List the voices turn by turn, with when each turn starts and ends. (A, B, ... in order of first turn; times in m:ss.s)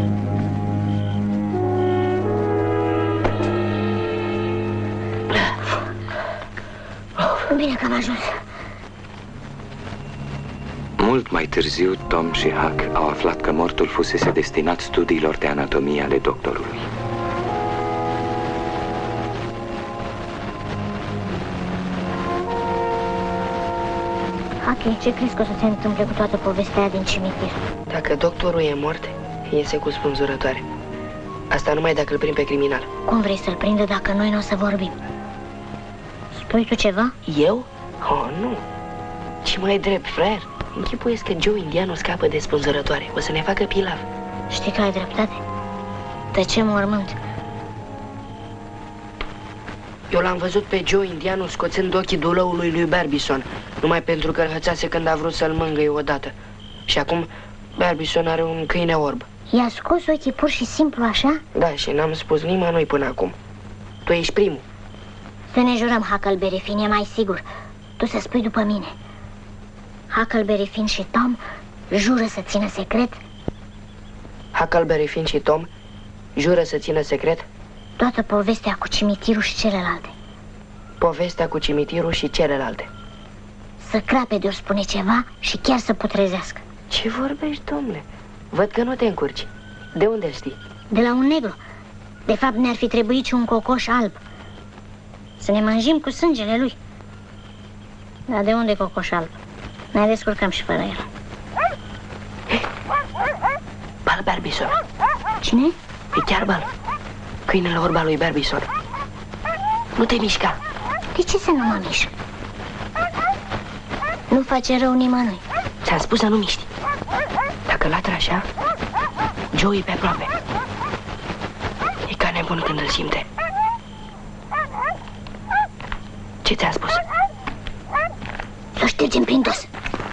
0:07.5-0:08.4 A
0:11.0-0:16.9 B
0:24.6-0:27.6 A
0:27.9-0:30.6 C
0:31.5-0:32.9 C
0:33.1-0:35.0 A
0:36.3-0:37.2 A
0:37.3-0:38.6 C
0:39.4-0:44.0 C
0:44.5-0:45.4 A
0:46.3-0:47.2 A
0:50.1-0:56.3 C
0:56.9-0:59.3 C
0:59.5-1:01.4 A
1:01.6-1:03.4 C
1:04.0-1:04.6 C
1:05.5-1:07.4 A
1:08.0-1:08.9 A
1:10.1-1:13.2 A
1:14.5-1:15.7 C
1:16.4-1:17.5 C
1:18.0-1:20.1 A
1:21.0-1:22.9 C
1:23.8-1:26.6 A
1:26.9-1:30.6 C
1:30.9-1:31.6 A
1:32.3-1:34.2 A
1:35.4-1:36.8 A
1:38.3-1:39.3 A
1:39.9-1:41.1 A
1:44.1-1:44.7 C
1:45.4-1:45.8 A
1:46.1-1:46.7 C
1:47.5-1:48.7 C
1:50.0-1:50.6 C
1:51.2-1:52.1 A
1:54.3-1:55.4 A
1:55.8-1:56.7 C
1:57.7-1:58.4 C
1:59.5-2:00.3 C
2:02.1-2:03.3 C
2:06.4-2:07.0 C
2:08.8-2:09.7 A